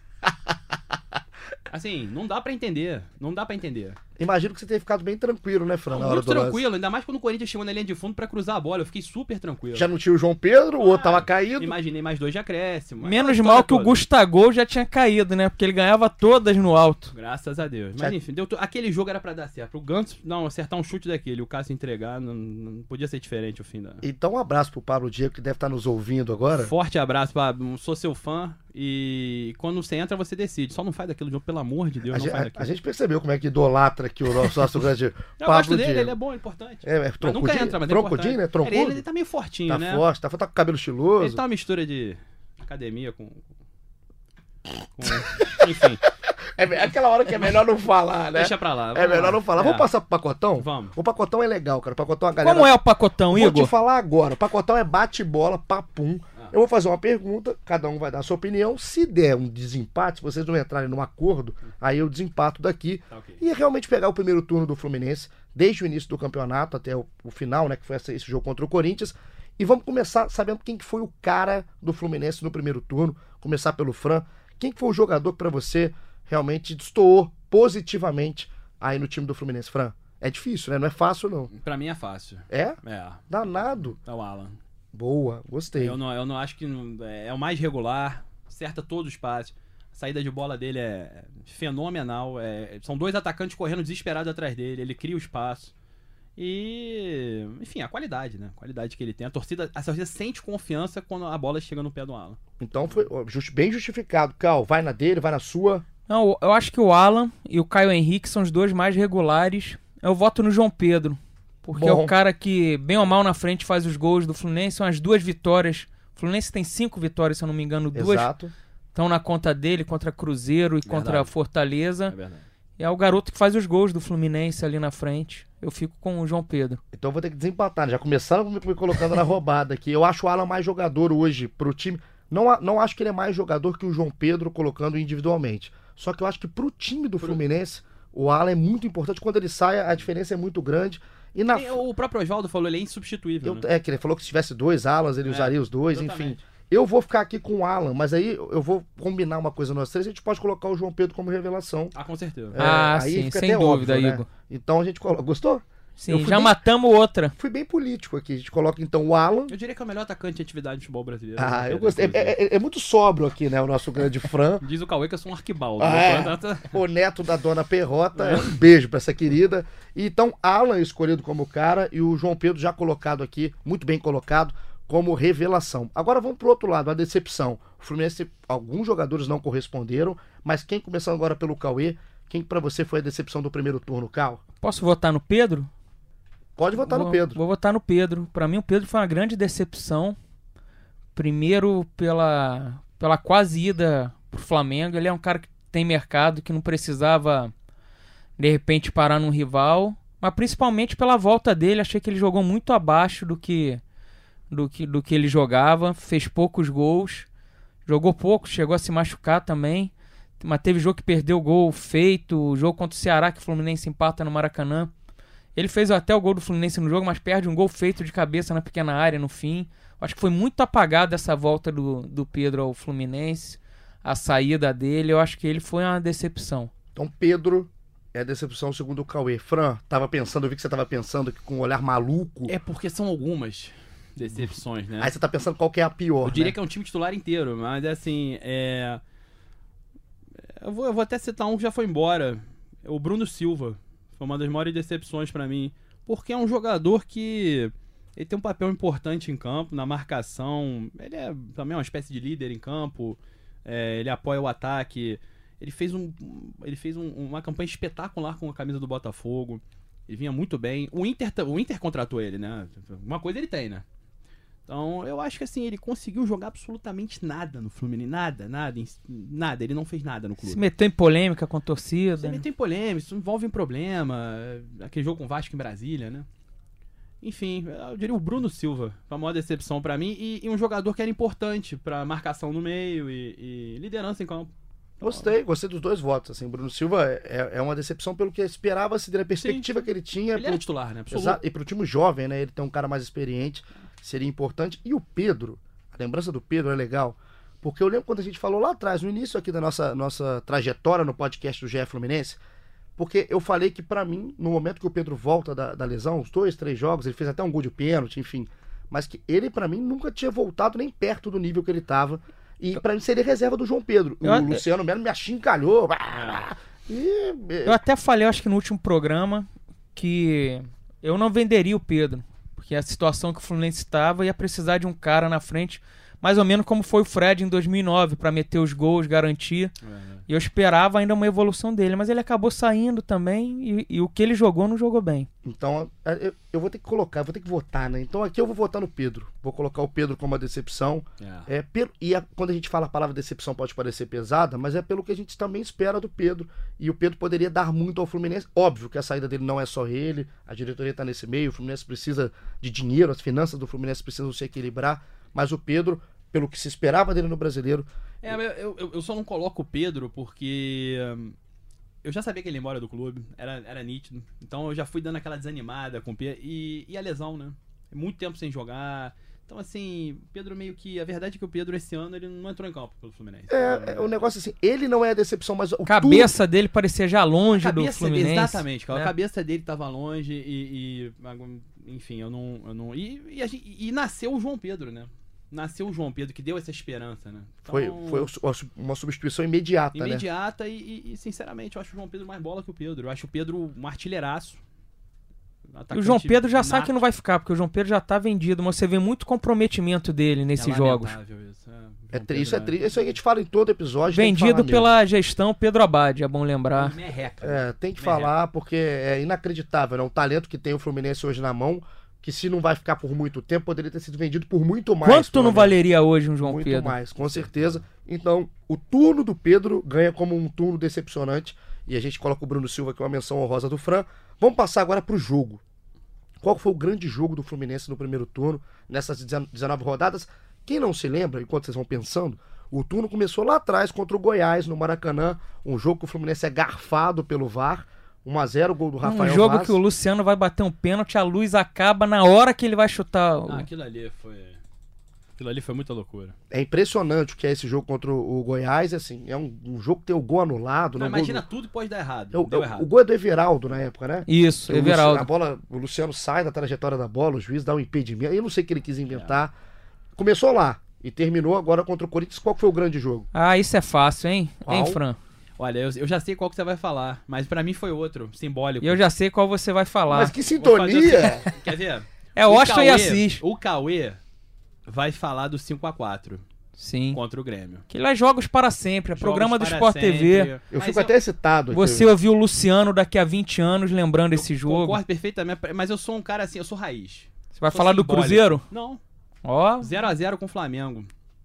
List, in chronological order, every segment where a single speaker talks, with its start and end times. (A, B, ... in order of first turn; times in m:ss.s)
0:01.7-0:04.0 A
0:04.2-0:06.6 B
0:05.9-0:09.9 A
0:09.7-0:11.8 B
0:10.8-0:14.0 A
0:13.0-0:17.1 C
0:17.1-0:24.0 A
0:24.0-0:26.7 B
0:26.6-0:32.7 A
0:32.1-0:36.2 B
0:35.4-0:40.0 A
0:36.8-0:39.0 B
0:39.7-0:41.4 B
0:41.2-0:43.4 A
0:45.0-0:46.1 A
0:45.0-0:52.7 B
0:48.3-0:49.9 A
0:50.6-0:51.0 A
0:52.4-0:53.7 C
0:53.3-1:21.5 B
1:03.1-1:03.4 A
1:21.5-1:23.2 A
1:22.5-1:24.0 B
1:23.9-1:24.6 A
1:24.9-1:26.0 B
1:25.7-1:35.7 A
1:36.4-1:43.0 A
1:42.6-1:45.8 B
1:46.1-1:58.3 C
1:51.7-1:52.1 B
1:57.9-1:58.5 B
1:58.9-2:02.1 C
2:00.8-2:01.3 A
2:02.1-2:02.4 A
2:02.8-2:06.8 C
2:06.9-2:21.8 B
2:21.5-2:23.6 A
2:23.4-2:31.9 B
2:25.2-2:26.4 A
2:31.9-2:32.6 A
2:32.5-2:36.6 B
2:32.6-2:34.3 C
2:36.0-2:37.3 C
2:37.4-2:39.5 B
2:39.5-2:42.4 A
2:41.4-2:44.6 B
2:44.6-2:46.7 A
2:45.8-3:04.4 B
2:48.2-2:48.4 A
3:04.6-3:05.7 C
3:06.6-3:07.4 B
3:06.8-3:10.2 C
3:11.1-3:17.5 C
3:18.4-3:23.8 C
3:24.5-3:27.3 C
3:27.8-3:34.9 C
3:35.6-3:46.7 C
3:46.9-3:52.5 B
3:52.5-3:55.1 A
3:55.0-3:56.6 B
3:56.2-3:59.0 A
4:00.4-4:23.8 A
4:24.7-4:30.6 A
4:30.4-4:32.4 C
4:32.2-4:36.3 A
4:37.2-4:45.3 A
4:45.0-5:02.4 B
4:49.4-4:49.7 A
4:50.3-4:51.4 A
5:03.0-5:17.8 B
5:14.2-5:14.6 C
5:16.1-5:16.5 A
5:17.6-5:29.7 C
5:29.8-5:30.2 A
5:30.3-5:35.3 C
5:35.4-5:57.9 B
5:41.2-5:41.5 A
5:58.2-6:01.4 A
6:02.0-6:14.2 A
6:13.5-6:16.3 B
6:15.8-6:19.1 C
6:17.5-6:28.3 A
6:27.7-6:30.2 B
6:29.9-6:34.6 A
6:35.7-6:37.0 A
6:35.9-6:41.1 C
6:40.6-6:43.0 A
6:42.1-6:44.9 B
6:44.1-6:46.9 C
6:46.7-6:48.3 A
6:47.4-6:55.8 B
6:55.0-6:57.0 C
6:56.4-7:05.6 B
6:57.2-6:57.7 A
7:06.4-7:19.8 B
7:19.0-7:23.7 C
7:23.5-7:24.6 A
7:25.4-7:26.4 A
7:26.5-7:31.4 B
7:31.0-7:32.9 A
7:32.3-7:39.5 B
7:34.3-7:35.3 C
7:39.1-7:39.4 A
7:40.2-7:43.3 B
7:43.3-7:45.2 C
7:44.6-7:45.0 B
7:45.6-7:49.0 A
7:48.8-7:50.3 C
7:50.1-7:51.4 B
7:50.4-7:54.2 A
7:52.3-7:53.4 C
7:54.8-7:56.4 A
7:56.8-7:57.2 C
7:57.1-7:57.8 A
7:57.9-8:00.5 C
7:59.2-8:01.1 A
8:00.7-8:02.1 B
8:01.7-8:05.0 C
8:04.4-8:09.0 A
8:07.6-8:08.6 C
8:09.4-8:09.9 C
8:09.8-8:11.1 A